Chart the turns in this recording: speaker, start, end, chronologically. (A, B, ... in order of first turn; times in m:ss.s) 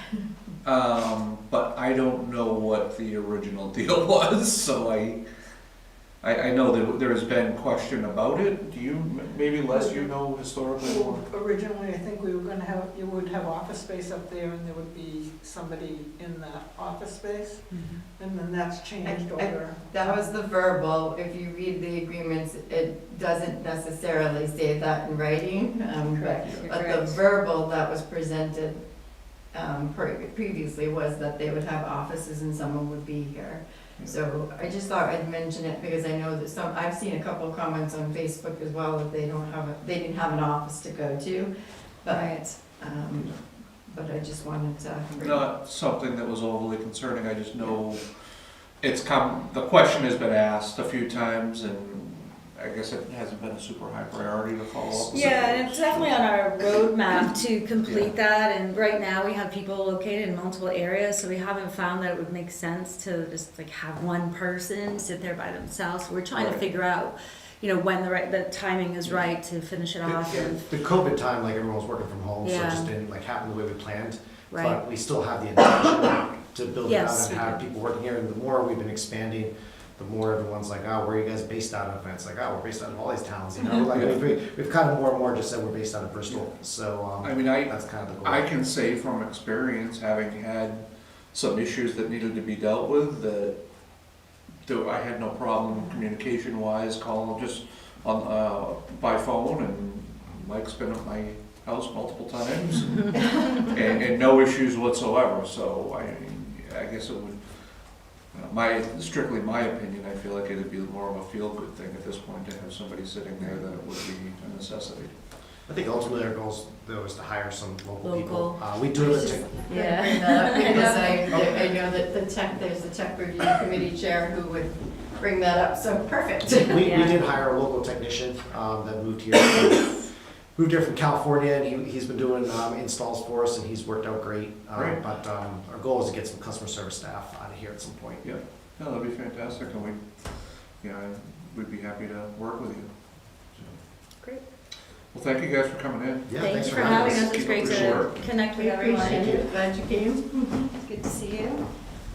0:00.6-0:05.2 A
0:06.2-0:11.3 A
0:09.7-0:10.1 B
0:10.8-0:20.2 B
0:17.7-0:18.0 C
0:19.0-0:28.8 D
0:26.1-0:27.2 C
0:29.5-0:41.5 D
0:42.0-0:45.5 D
0:42.1-0:42.4 C
0:45.2-0:48.0 A
0:48.8-0:56.3 A
0:55.1-1:10.6 C
0:57.8-0:58.1 A
1:06.3-1:06.6 A
1:10.0-1:28.4 E
1:12.4-1:12.9 C
1:14.5-1:14.8 C
1:16.8-1:17.6 C
1:27.2-1:33.6 A
1:34.6-1:47.4 A
1:48.3-1:55.1 A
1:55.7-1:59.5 E
1:58.0-2:01.3 C
1:59.1-2:06.9 D
2:01.3-2:01.8 A
2:06.5-2:18.2 E
2:06.8-2:07.2 C
2:18.2-2:20.0 A
2:20.8-2:22.9 A
2:25.1-2:28.2 A
2:26.3-2:28.0 E
2:26.4-2:29.5 C
2:28.5-2:30.7 D
2:29.0-2:29.3 E
2:30.8-2:31.6 C